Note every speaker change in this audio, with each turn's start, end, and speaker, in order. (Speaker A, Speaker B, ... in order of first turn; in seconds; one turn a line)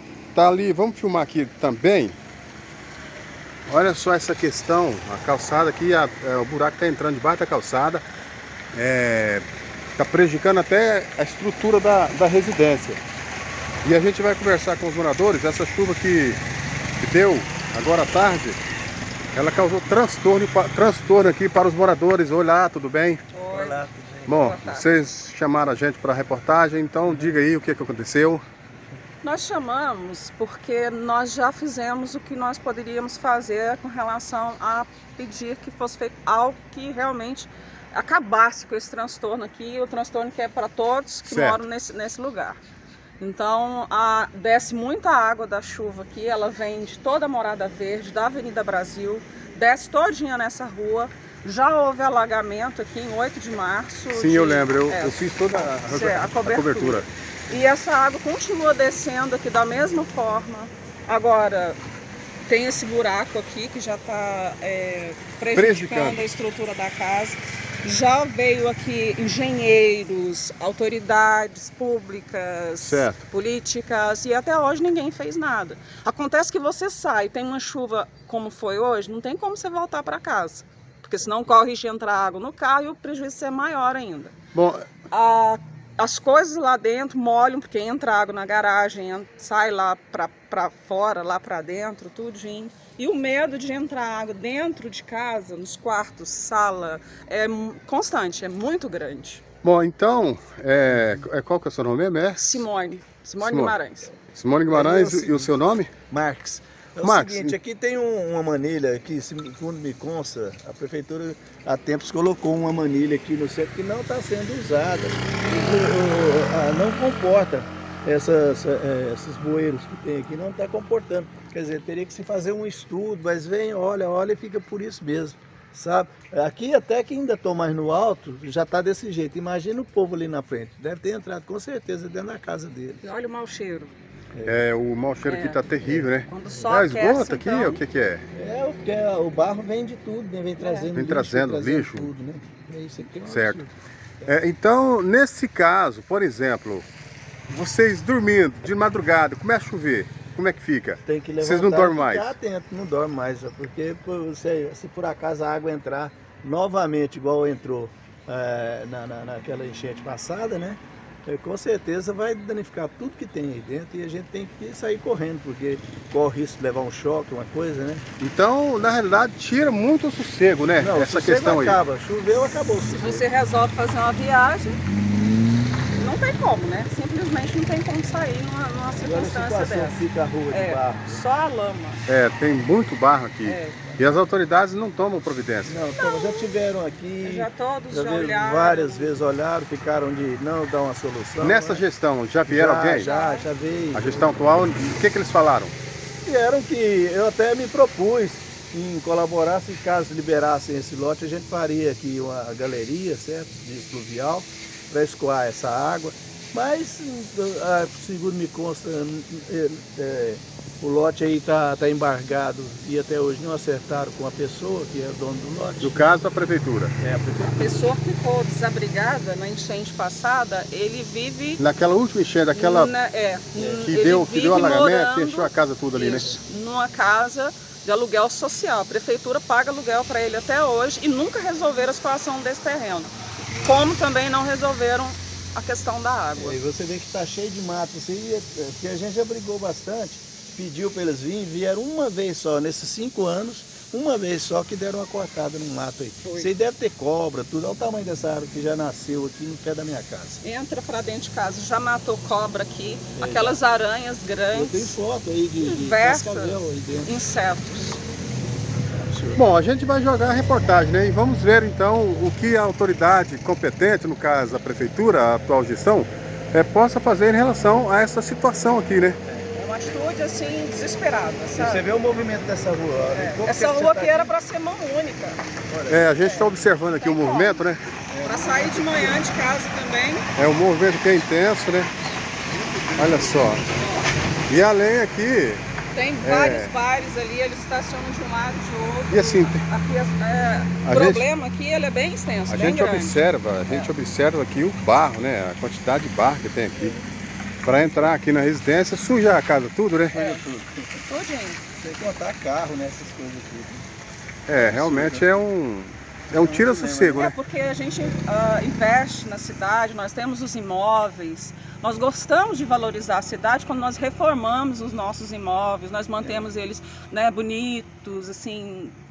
Speaker A: 0.3-2.1
Speaker A: 3.7-8.0
Speaker A: 8.7-9.4
Speaker A: 10.0-13.0
Speaker A: 13.8-16.4
Speaker A: 17.0-18.6
Speaker A: 19.3-23.2
Speaker B: 23.3-24.9
Speaker C: 23.5-24.4
Speaker A: 24.3-28.4
Speaker B: 29.2-42.6
Speaker A: 41.2-41.6
Speaker B: 43.2-61.8
Speaker A: 54.1-57.1
Speaker B: 62.5-84.3
Speaker A: 65.5-66.2
Speaker A: 72.8-73.2
Speaker A: 84.5-84.9
Speaker B: 85.1-99.5
Speaker A: 99.6-102.6
Speaker B: 102.3-104.1
Speaker A: 103.4-105.9
Speaker C: 104.7-105.6
Speaker C: 106.1-133.0
Speaker A: 107.0-107.5
Speaker B: 133.0-133.9
Speaker C: 134.3-134.6
Speaker A: 134.4-138.2
Speaker B: 135.2-135.6
Speaker C: 135.8-136.1
Speaker B: 136.3-137.8
Speaker C: 138.3-144.3
Speaker B: 140.6-140.9
Speaker A: 140.9-142.1
Speaker A: 143.2-143.6
Speaker A: 144.2-146.9
Speaker A: 147.5-152.3
Speaker C: 151.1-168.0
Speaker A: 168.2-171.8
Speaker C: 170.8-173.2
Speaker B: 172.9-174.8
Speaker B: 175.9-182.0
Speaker C: 179.0-181.2
Speaker A: 182.1-185.8
Speaker B: 183.4-184.0
Speaker C: 185.7-191.8
Speaker B: 186.0-186.5
Speaker B: 187.2-189.1
Speaker A: 191.4-193.1
Speaker C: 192.5-195.0
Speaker B: 193.0-193.4
Speaker A: 193.9-195.7
Speaker C: 196.2-216.1
Speaker A: 215.8-216.9
Speaker C: 217.0-217.6
Speaker B: 217.4-221.6
Speaker A: 221.6-222.9
Speaker B: 222.5-236.6
Speaker C: 223.6-223.9
Speaker A: 223.8-226.3
Speaker C: 236.3-250.4
Speaker B: 246.2-246.5
Speaker B: 250.4-255.0
Speaker C: 253.2-253.6
Speaker C: 254.5-257.2
Speaker B: 255.6-258.0
Speaker C: 258.8-259.4
Speaker A: 259.3-269.2
Speaker C: 269.2-269.5
Speaker B: 269.5-271.9
Speaker C: 271.5-274.3
Speaker B: 273.1-275.4
Speaker C: 275.6-276.3
Speaker A: 275.9-277.8
Speaker B: 276.1-277.6
Speaker C: 278.1-279.2
Speaker B: 278.2-280.3
Speaker A: 280.3-281.9
Speaker C: 282.4-283.6
Speaker A: 283.0-283.7
Speaker B: 283.7-284.2
Speaker A: 284.5-285.6
Speaker B: 285.9-293.9
Speaker A: 286.2-286.7
Speaker A: 289.1-289.6
Speaker A: 290.8-291.2
Speaker A: 292.5-296.9
Speaker C: 296.8-297.0
Speaker A: 297.6-300.2
Speaker C: 297.6-298.1
Speaker B: 300.1-300.4
Speaker C: 300.2-301.0
Speaker B: 301.0-301.6
Speaker C: 301.8-303.8
Speaker A: 304.5-307.4
Speaker C: 304.5-305.2
Speaker C: 306.3-307.2
Speaker B: 307.1-318.9
Speaker C: 316.2-316.5